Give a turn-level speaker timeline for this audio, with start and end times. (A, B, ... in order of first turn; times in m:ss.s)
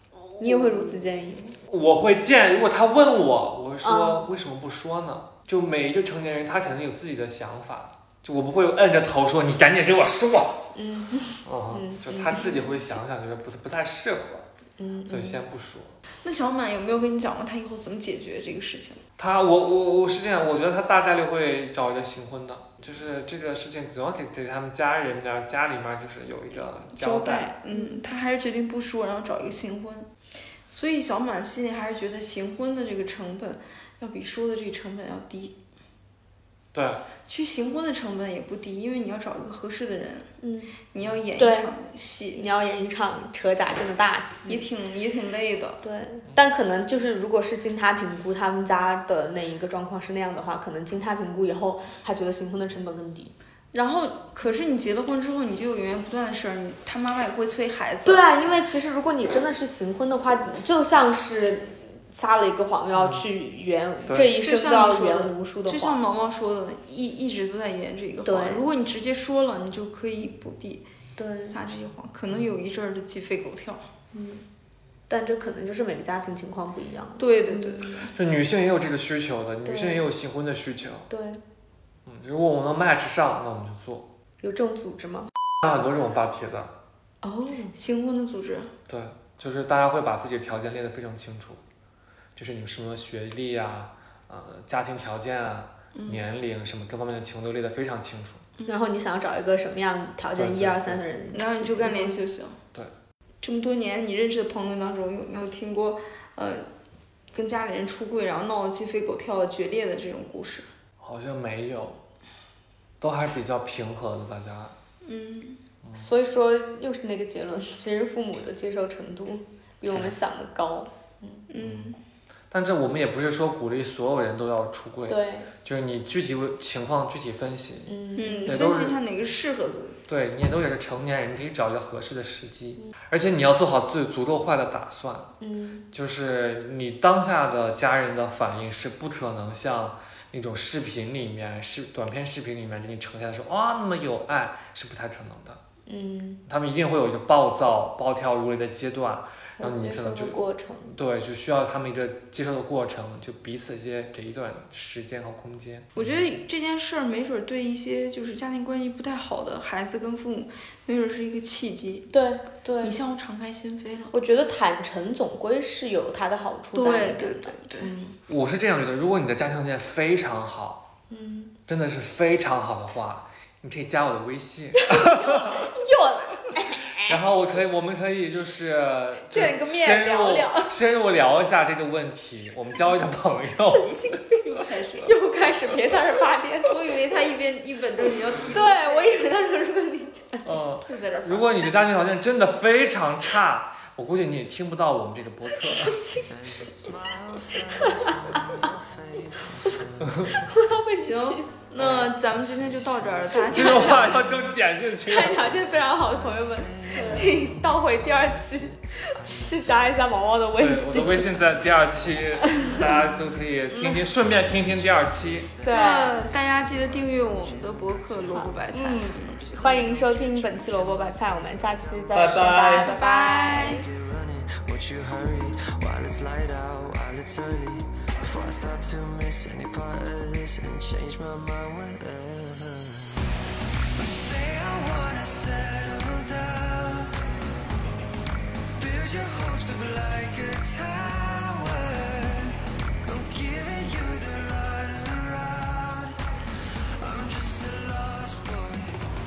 0:00.4-0:00.8 A
0:00.4-0:01.6 B
0:01.7-0:10.7 A
0:03.8-0:04.2 B
0:10.7-0:12.8 B
0:11.4-0:14.5 A
0:14.8-0:15.4 B
0:15.1-0:16.0 A
0:16.2-0:19.0 C
0:19.2-0:27.5 A
0:26.9-0:30.1 C
0:27.7-0:28.0 B
0:30.6-0:35.5 C
0:36.7-0:37.0 A
0:37.3-0:40.3 C
0:40.4-0:40.7 B
0:40.9-0:42.4 C
0:41.4-0:41.7 B
0:42.3-0:44.6 B
0:44.4-0:45.8 C
0:45.8-0:53.3 B
0:53.7-0:58.3 C
0:58.0-1:06.0 B
1:02.9-1:03.2 A
1:04.2-1:10.8 C
1:08.2-1:08.6 B
1:11.2-1:11.6 B
1:11.4-1:13.8 C
1:14.1-1:14.4 B
1:15.1-1:18.1 B
1:17.2-1:18.1 C
1:18.1-1:21.1 A
1:19.6-1:20.0 B
1:21.1-1:21.4 B
1:22.0-1:24.1 A
1:24.4-1:25.3 B
1:25.6-1:26.7 A
1:27.2-1:27.7 B
1:27.7-1:28.7 C
1:28.9-1:31.6 A
1:32.4-1:38.4 A
1:35.9-1:36.2 C
1:38.6-1:42.2 B
1:40.3-1:41.0 A
1:41.3-1:42.6 C
1:43.4-1:46.7 C
1:47.3-1:50.7 C
1:51.0-1:52.0 A
1:53.0-1:54.7 A
1:55.0-1:55.6 C
1:55.9-2:01.4 B
2:01.5-2:02.0 C
2:01.6-2:01.9 A
2:02.5-2:09.0 A
2:05.1-2:05.5 B
2:07.9-2:08.6 B
2:08.2-2:10.0 C
2:10.1-2:15.3 A
2:15.4-2:15.9 B
2:15.9-2:25.6 A
2:25.8-2:26.4 B
2:26.5-2:36.3 A
2:29.6-2:30.9 B
2:36.0-2:42.1 C
2:42.1-2:43.0 B
2:42.8-2:44.1 C
2:44.1-2:48.2 B
2:46.7-2:47.9 C
2:48.3-2:50.8 A
2:51.1-2:51.5 B
2:51.7-2:55.8 A
2:54.8-2:57.2 B
2:56.9-3:04.2 A
2:59.3-3:00.7 B
3:03.6-3:04.4 B
3:04.4-3:05.1 C
3:05.0-3:06.7 B
3:06.6-3:09.4 C
3:08.5-3:10.5 B
3:10.4-3:16.0 A
3:10.8-3:11.6 C
3:15.5-3:16.3 B
3:16.1-3:20.3 D
3:17.5-3:18.7 B
3:20.0-3:20.4 A
3:20.3-3:21.6 B
3:20.9-3:24.3 C
3:21.8-3:22.1 A
3:23.4-3:24.2 B
3:23.5-3:25.6 A
3:25.0-3:31.3 B
3:25.2-3:27.7 D
3:27.0-3:27.3 C
3:30.6-3:35.5 A
3:31.9-3:32.5 D
3:32.4-3:32.8 B
3:34.3-3:42.6 D
3:35.6-3:36.2 B
3:35.6-3:39.7 C
3:38.3-3:43.8 B
3:42.1-3:42.9 A
3:42.5-3:43.8 C
3:43.3-3:53.3 D
3:53.9-3:57.1 D
3:58.8-4:06.2 D
4:07.0-4:09.1 D